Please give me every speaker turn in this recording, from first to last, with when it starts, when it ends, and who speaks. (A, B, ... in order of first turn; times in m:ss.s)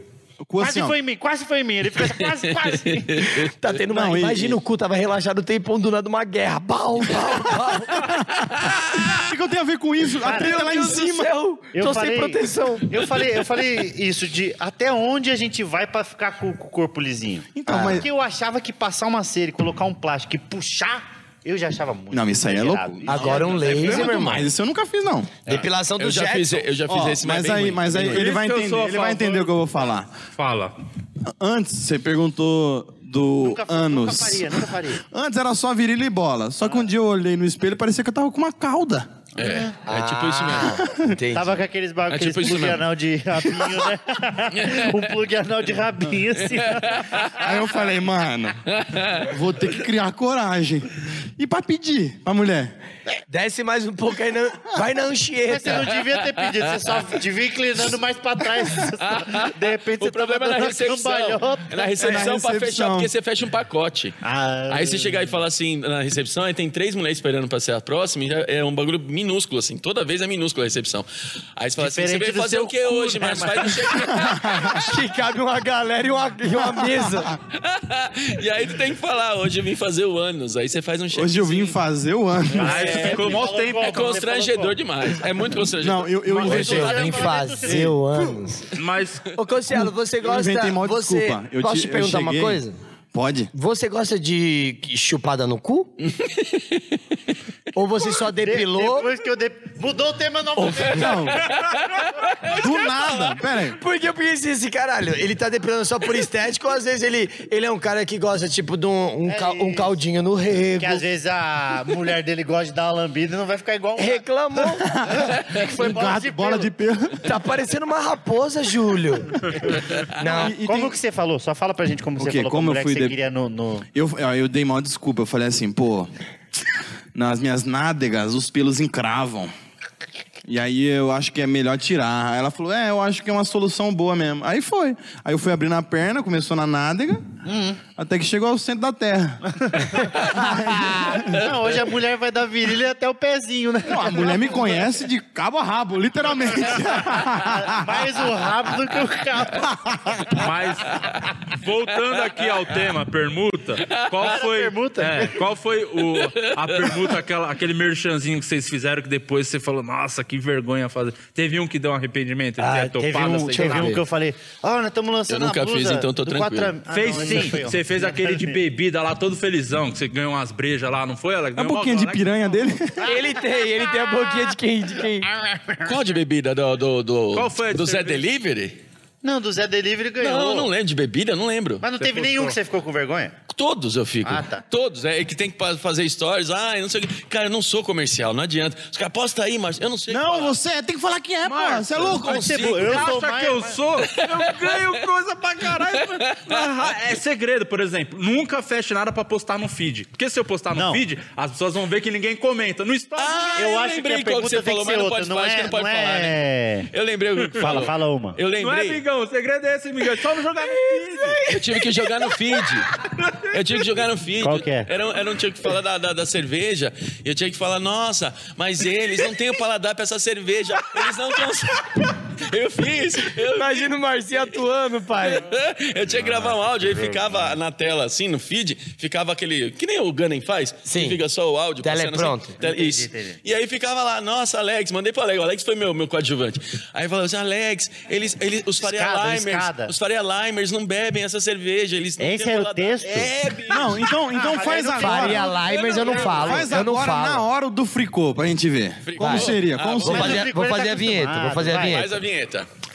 0:00.4-0:01.0 A
0:00.6-0:03.3 B
0:02.0-0:03.8 C
0:03.3-0:08.1 D
0:03.9-0:04.6 A
0:07.9-0:11.3 A
0:08.5-0:09.2 C
0:10.2-0:13.0 D
0:10.2-0:11.0 B
0:11.7-0:24.4 B
0:17.5-0:18.1 A
0:17.7-0:18.1 D
0:22.1-0:25.4 A
0:23.1-0:24.5 D
0:25.5-0:26.7 D
0:25.5-0:28.3 C
0:26.9-0:30.1 A
0:28.0-0:29.7 E
0:30.4-0:30.7 E
0:31.4-0:39.1 A
0:33.4-0:35.0 B
0:39.4-0:40.8 C
0:39.4-0:39.8 B
0:39.9-0:41.6 D
0:40.8-0:41.2 A
0:41.3-0:47.6 B
0:42.1-0:42.8 C
0:44.5-0:44.9 C
0:46.6-0:47.3 C
0:47.4-0:48.6 A
0:48.7-0:49.3 C
0:49.2-0:52.7 A
0:53.3-0:55.9 D
0:55.5-1:02.2 B
0:55.7-0:57.1 C
0:58.8-1:04.2 C
1:02.0-1:03.1 A
1:04.2-1:05.4 B
1:04.7-1:11.1 C
1:11.6-1:14.8 C
1:11.8-1:14.1 B
1:14.1-1:14.8 A
1:14.7-1:17.4 D
1:16.5-1:17.4 A
1:17.5-1:21.8 C
1:21.1-1:22.9 A
1:22.5-1:24.8 B
1:22.6-1:24.1 E
1:22.9-1:27.3 C
1:25.8-1:28.0 A
1:26.4-1:28.0 B
1:26.4-1:28.7 D
1:28.8-1:29.3 E
1:29.4-1:32.8 D
1:29.7-1:32.6 A
1:33.1-1:33.5 A
1:33.5-1:35.9 D
1:36.0-1:37.0 C
1:37.7-1:39.1 D
1:38.4-1:41.6 B
1:40.9-1:41.4 A
1:41.3-1:43.4 C
1:42.5-1:43.8 A
1:43.7-1:51.0 D
1:49.3-1:50.0 B
1:50.8-1:54.2 B
1:54.0-1:54.9 D
1:54.8-1:56.7 B
1:54.8-1:57.3 A
1:55.6-1:56.2 D
1:57.2-1:59.5 D
1:59.6-2:03.9 B
2:00.1-2:00.6 D
2:00.3-2:01.0 A
2:02.2-2:03.2 A
2:04.0-2:06.1 A
2:07.2-2:09.5 A
2:10.5-2:17.2 A
2:17.4-2:17.8 B
2:18.0-2:19.4 A
2:19.5-2:25.0 B
2:20.0-2:21.4 A
2:23.9-2:28.1 A
2:26.7-2:30.5 B
2:29.6-2:30.2 A
2:30.3-2:44.0 E
2:34.2-2:35.4 B
2:36.3-2:37.1 C
2:42.6-2:44.0 D
2:42.9-2:48.6 B
2:45.3-2:47.5 C
2:46.9-2:52.6 E
2:51.6-2:53.1 A
2:53.0-2:53.3 B
2:53.0-2:55.3 D
2:55.3-2:56.0 B
2:55.8-2:58.8 C
2:57.3-2:58.2 E
2:59.2-3:00.7 B
3:00.2-3:01.9 C
3:01.8-3:03.4 B
3:02.0-3:02.6 E
3:03.5-3:10.6 C
3:04.2-3:04.6 B
3:10.1-3:12.8 A
3:11.4-3:23.6 E
3:11.9-3:13.1 C
3:12.2-3:13.8 B
3:14.0-3:15.0 C
3:15.7-3:16.9 C
3:20.7-3:21.0 B
3:23.2-3:26.4 C
3:23.6-3:26.9 B
3:26.9-3:29.0 C
3:27.4-3:27.9 E
3:27.6-3:28.4 B
3:28.6-3:31.4 E
3:30.6-3:32.8 D
3:31.5-3:32.9 C
3:33.2-3:33.6 E
3:33.5-3:43.9 C
3:34.4-3:34.9 B
3:43.4-3:45.5 D
3:45.2-4:04.1 C
3:50.9-3:51.2 D
3:51.8-3:52.6 D
3:52.6-3:53.4 B
3:58.8-3:59.9 B
4:02.2-4:06.8 B
4:03.7-4:05.5 A
4:04.9-4:07.4 D
4:05.7-4:06.5 C
4:06.4-4:10.5 A
4:09.0-4:10.4 C
4:09.2-4:12.1 D
4:10.0-4:12.0 B
4:11.7-4:12.7 C